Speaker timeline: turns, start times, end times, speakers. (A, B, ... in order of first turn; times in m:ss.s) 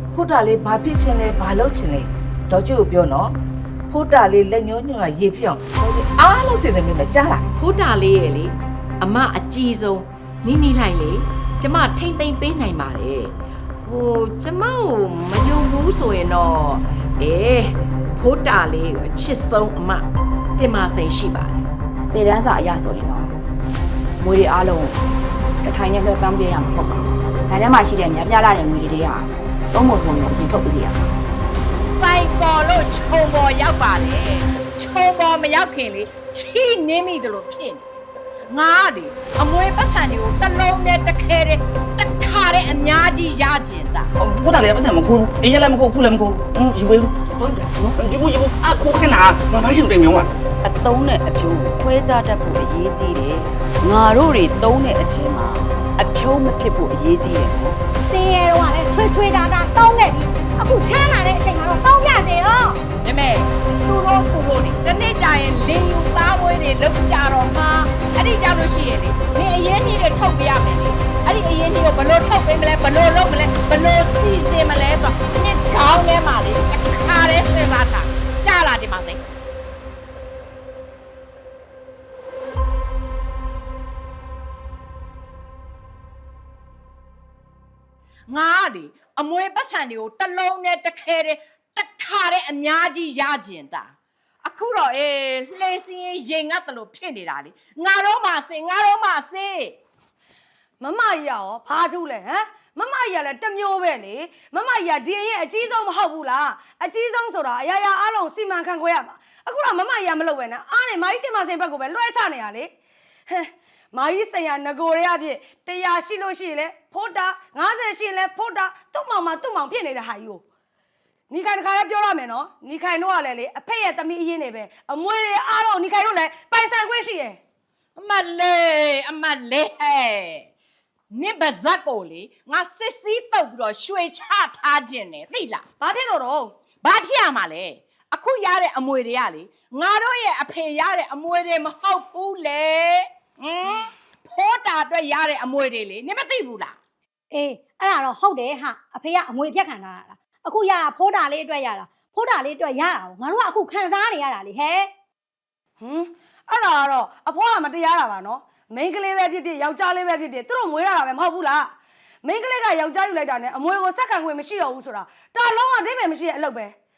0:00.1-0:03.4 A
0:03.9-0:07.5 A
0:07.6-0:21.7 B
0:22.1-0:23.3 C
0:24.2-0:25.0 C
0:25.6-0:31.1 C
0:31.8-0:37.9 B
0:38.5-0:44.1 B
0:44.2-0:50.3 D
0:50.6-0:57.8 E
0:58.1-1:02.8 F
1:03.0-1:19.3 B
1:28.3-1:33.9 B
1:34.4-1:39.8 B
1:40.8-1:52.7 G
1:53.3-2:00.4 G
2:01.3-2:07.4 G
2:08.0-2:10.5 B
2:11.1-2:15.6 B
2:15.8-2:16.6 G
2:16.8-2:26.8 B
2:27.3-2:34.9 F
2:35.8-2:41.7 G
2:42.2-2:46.8 G